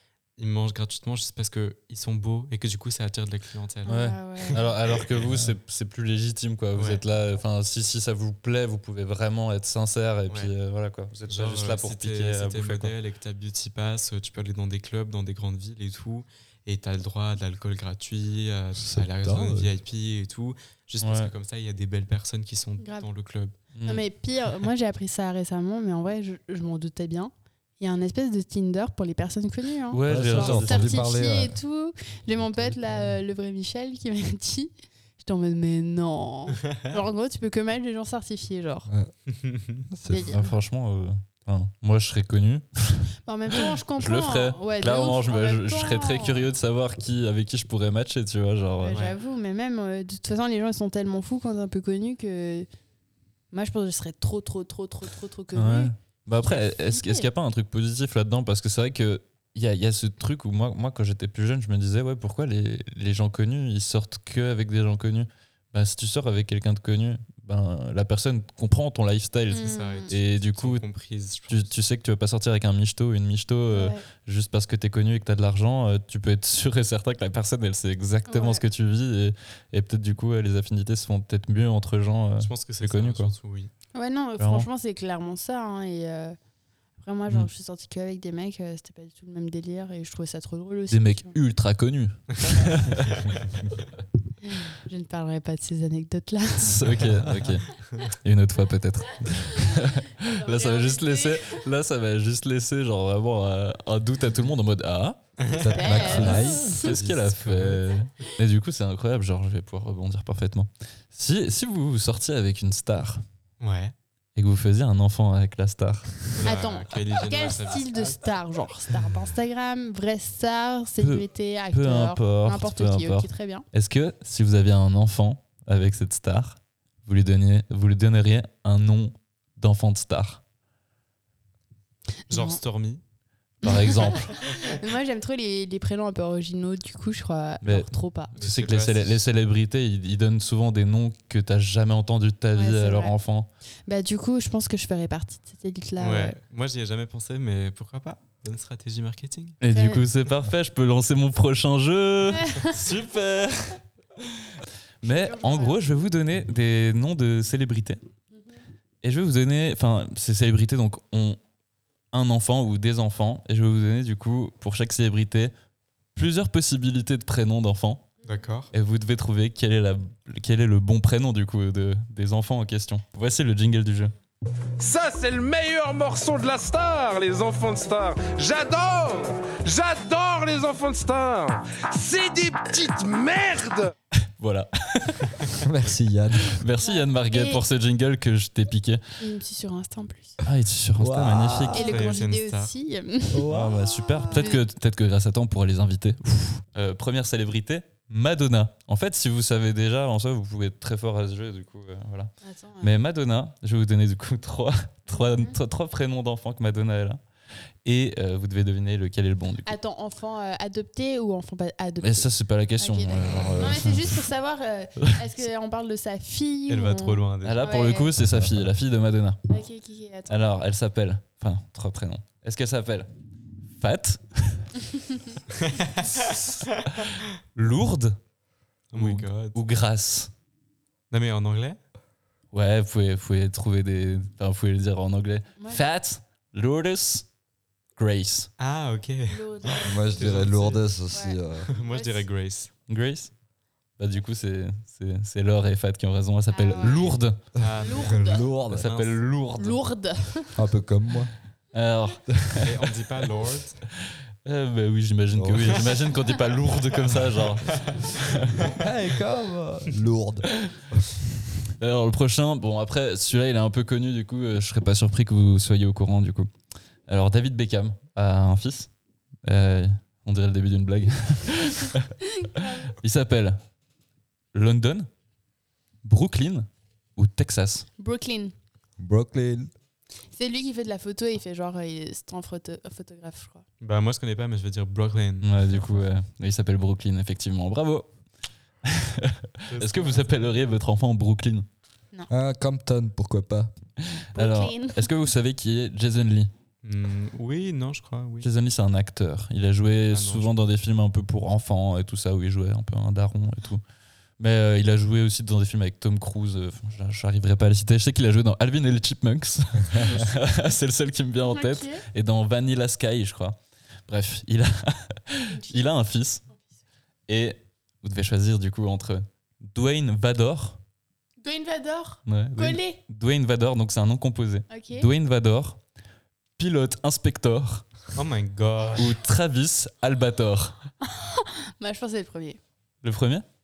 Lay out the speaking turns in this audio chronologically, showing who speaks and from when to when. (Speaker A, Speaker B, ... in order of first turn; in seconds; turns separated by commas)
Speaker A: 0.4-5.3, Speaker B: 3.9-4.6, Speaker C: 3.9-12.9, Speaker A: 6.8-7.0, Speaker A: 11.3-23.6, Speaker D: 18.8-19.7, Speaker C: 21.0-21.3, Speaker B: 22.8-23.1, Speaker C: 23.7-24.0, Speaker B: 23.9-38.9, Speaker C: 29.9-31.0, Speaker D: 30.1-31.6, Speaker D: 32.4-33.1, Speaker A: 39.3-39.9, Speaker D: 39.9-40.4, Speaker B: 40.0-40.5, Speaker C: 40.3-49.0, Speaker B: 43.2-46.5, Speaker B: 48.8-52.7, Speaker A: 48.9-49.1, Speaker B: 53.5-57.3, Speaker C: 55.5-70.9, Speaker B: 69.5-70.1, Speaker A: 69.6-71.8, Speaker C: 71.5-83.3, Speaker B: 73.7-74.0, Speaker B: 78.3-78.6, Speaker A: 82.4-83.7, Speaker B: 83.9-86.4, Speaker C: 84.4-84.7, Speaker B: 87.0-91.3, Speaker C: 90.9-93.3, Speaker A: 92.4-93.4, Speaker B: 94.4-96.9, Speaker C: 96.6-105.2, Speaker A: 97.7-98.0, Speaker B: 99.4-101.6, Speaker A: 105.4-107.8, Speaker D: 105.5-107.0, Speaker B: 105.5-106.9, Speaker C: 105.9-113.2, Speaker A: 113.6-113.9, Speaker C: 114.4-116.3, Speaker A: 116.3-118.2, Speaker B: 116.4-123.7, Speaker C: 121.0-130.4, Speaker B: 132.3-132.6, Speaker A: 132.3-133.0, Speaker C: 133.6-134.3, Speaker B: 133.6-138.3, Speaker C: 137.6-143.5, Speaker A: 138.4-139.2, Speaker B: 142.5-143.2, Speaker B: 143.9-146.4, Speaker A: 146.0-149.6, Speaker C: 149.6-153.8, Speaker B: 149.7-150.1, Speaker B: 152.3-152.7, Speaker C: 155.0-158.0, Speaker B: 155.0-155.8, Speaker B: 158.3-158.6, Speaker C: 159.0-161.4, Speaker C: 162.1-165.5, Speaker C: 166.2-168.1, Speaker A: 168.2-168.7, Speaker C: 168.7-174.1, Speaker E: 174.8-183.9, Speaker C: 184.3-185.6, Speaker D: 185.6-186.6, Speaker C: 186.5-189.0, Speaker B: 186.8-187.6, Speaker B: 189.2-190.4, Speaker C: 190.4-191.9, Speaker D: 191.0-192.0, Speaker A: 191.7-192.7, Speaker B: 191.7-193.5, Speaker D: 193.3-193.9, Speaker C: 193.5-207.2, Speaker B: 194.0-194.6, Speaker B: 202.4-203.0, Speaker B: 205.1-205.6, Speaker C: 207.8-209.8, Speaker B: 209.7-218.1, Speaker C: 212.0-214.2, Speaker A: 216.7-217.8, Speaker C: 217.4-219.5, Speaker D: 218.2-218.7, Speaker B: 219.5-220.5, Speaker C: 220.3-223.1, Speaker C: 223.7-224.7, Speaker A: 225.6-226.6, Speaker C: 227.6-228.2, Speaker A: 228.9-229.6, Speaker C: 228.9-230.3, Speaker A: 231.1-231.8, Speaker C: 232.5-237.3, Speaker B: 235.6-235.8, Speaker C: 238.0-238.5, Speaker A: 238.6-240.8, Speaker B: 239.3-240.4, Speaker D: 239.8-241.7, Speaker B: 241.1-242.2, Speaker A: 241.7-242.7, Speaker C: 242.9-243.3, Speaker C: 244.0-247.4, Speaker B: 246.5-248.5, Speaker D: 247.6-248.9, Speaker A: 247.6-249.3, Speaker C: 248.7-249.8, Speaker B: 249.6-250.6, Speaker D: 250.6-251.3, Speaker C: 251.7-252.7, Speaker A: 252.6-253.8, Speaker C: 254.4-258.7, Speaker D: 255.3-255.9, Speaker A: 257.1-258.8, Speaker D: 258.8-261.3, Speaker C: 261.8-266.5, Speaker C: 267.1-268.9, Speaker C: 269.4-272.1, Speaker B: 272.4-272.9, Speaker C: 272.9-273.6, Speaker C: 274.5-275.1, Speaker C: 276.0-277.9, Speaker B: 278.0-278.5, Speaker D: 279.0-279.7, Speaker B: 280.3-283.6, Speaker A: 283.8-285.9, Speaker C: 285.4-288.1, Speaker C: 288.9-291.7, Speaker A: 289.7-290.5, Speaker D: 292.3-293.7, Speaker C: 294.0-296.5, Speaker B: 294.4-295.1, Speaker A: 296.8-298.5, Speaker C: 298.4-303.8, Speaker A: 300.1-300.6, Speaker C: 304.4-316.4, Speaker A: 310.0-310.3, Speaker B: 311.4-312.0, Speaker B: 315.5-315.9, Speaker C: 317.3-320.8, Speaker B: 321.4-323.0, Speaker C: 322.3-325.8, Speaker B: 324.7-325.1, Speaker C: 326.6-327.9, Speaker A: 328.1-329.2, Speaker C: 329.0-330.8, Speaker B: 331.0-332.6, Speaker C: 333.0-333.4